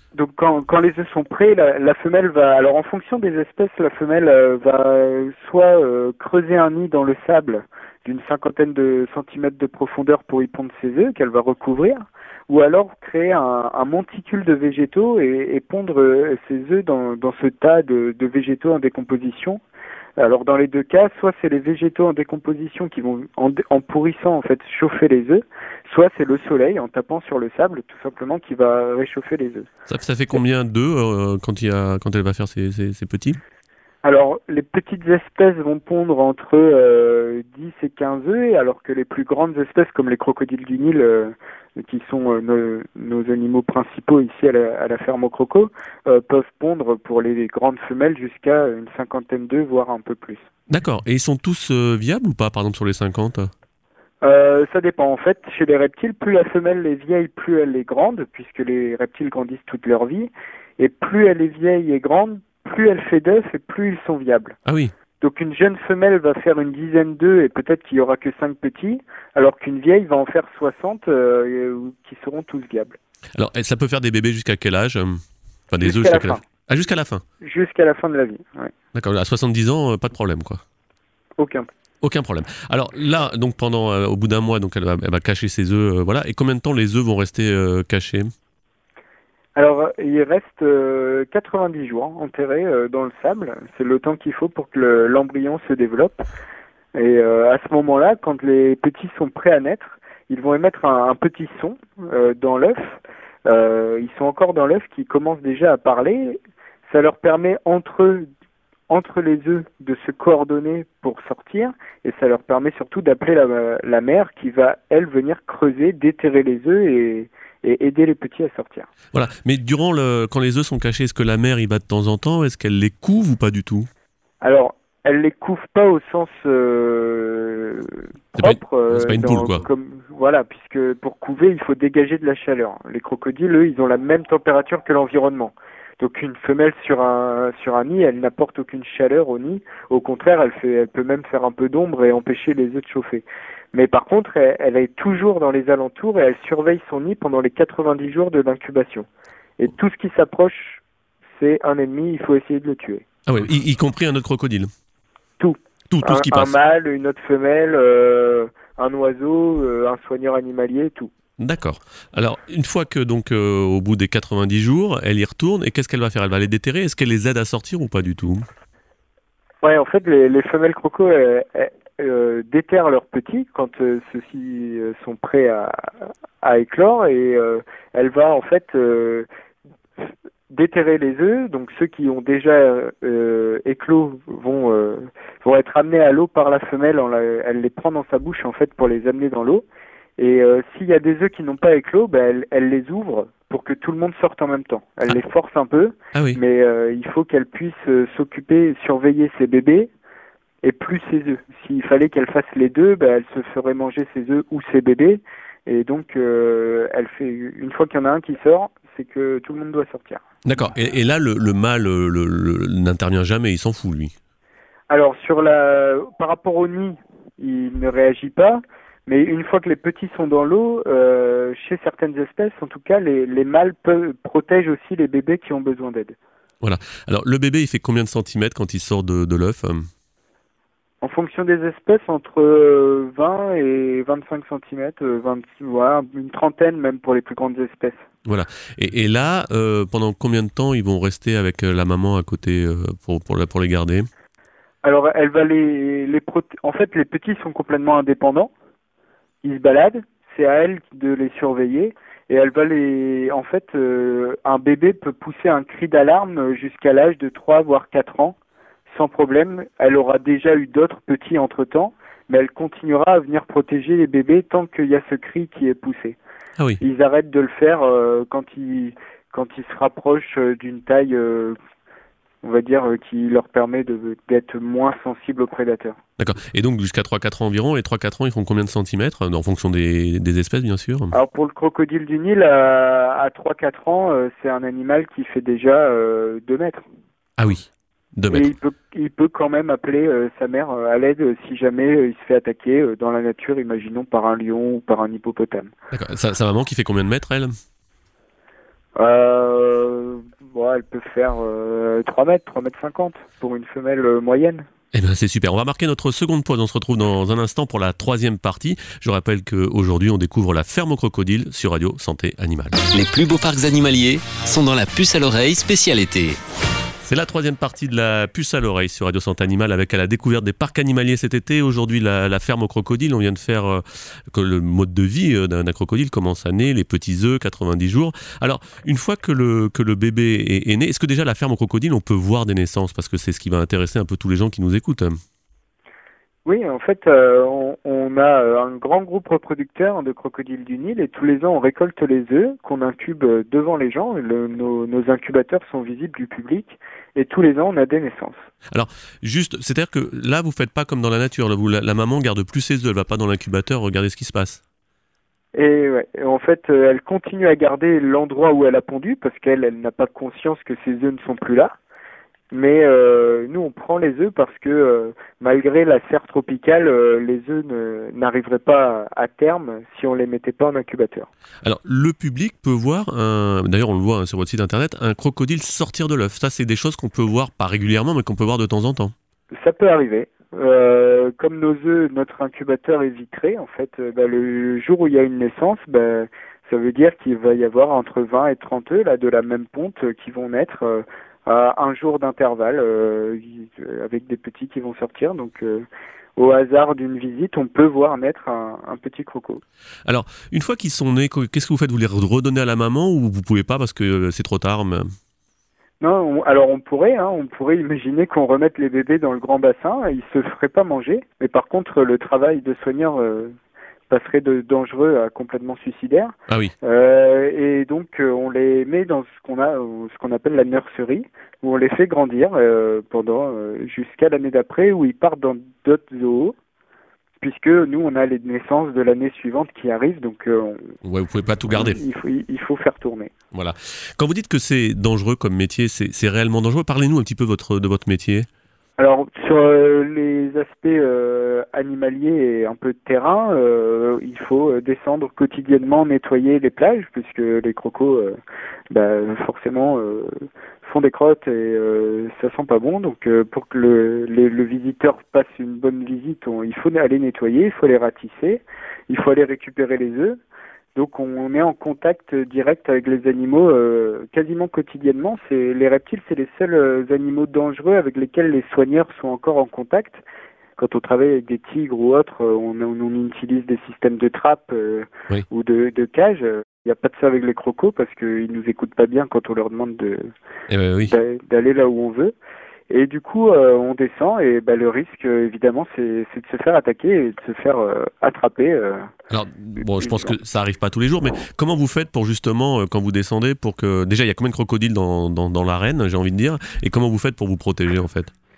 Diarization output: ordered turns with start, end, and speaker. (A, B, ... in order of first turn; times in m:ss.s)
0:00.2-0:19.6 A
0:20.2-0:29.7 A
0:29.9-0:33.4 B
0:34.0-0:50.5 A
0:50.7-0:53.5 B
0:54.2-1:04.6 A
1:04.7-1:04.9 B
1:05.2-1:13.0 A
1:13.4-1:17.2 B
1:15.8-1:16.4 A
1:17.4-1:18.7 A
1:18.9-1:20.6 B
1:21.4-1:21.7 A
1:22.0-1:28.3 B
1:29.6-1:36.2 A
1:37.0-1:48.3 A
1:48.9-1:58.9 A
1:59.1-2:03.9 B
2:04.4-2:29.1 A
2:08.4-2:09.6 B
2:29.6-2:30.8 A
2:31.4-2:33.0 A
2:33.3-2:34.7 B
2:35.4-2:41.1 A
2:35.9-2:36.6 B
2:41.4-2:48.5 B
2:49.6-2:59.3 A
3:00.5-3:09.6 A
3:10.2-3:19.9 A
3:16.1-3:16.4 B
3:20.6-3:30.2 A
3:30.4-3:34.1 B
3:34.9-3:46.2 A
3:46.6-3:49.9 B
3:51.0-3:58.1 A
3:58.3-4:04.1 B
4:04.8-4:08.5 A
4:09.4-4:18.4 A
4:18.9-4:26.2 A
4:26.8-4:31.6 A
4:32.4-4:36.0 A
4:36.2-4:41.1 B
4:41.1-4:46.8 A
4:47.4-4:48.5 B
4:48.3-4:55.7 A
4:55.9-4:57.6 B
4:59.0-5:04.7 A
5:04.9-5:12.8 B
5:12.9-5:16.4 C
5:17.0-5:35.2 B
5:36.5-5:48.5 A
5:48.7-5:54.6 B
5:55.6-6:01.8 A
6:02.5-6:11.3 A
6:11.6-6:19.1 B
6:19.5-6:39.6 A
6:40.1-6:45.1 B
6:46.0-6:53.6 A
6:54.1-7:06.6 A
7:07.4-7:11.0 A
7:11.0-7:12.0 B
7:11.7-7:13.3 A
7:13.5-7:18.5 B
7:19.0-7:28.4 A
7:28.9-7:40.4 A
7:41.0-7:50.2 A
7:50.8-8:00.3 A
8:00.7-8:01.2 B
8:01.1-8:02.4 A
8:02.9-8:09.1 A
8:09.3-8:18.3 B
8:10.0-8:10.3 A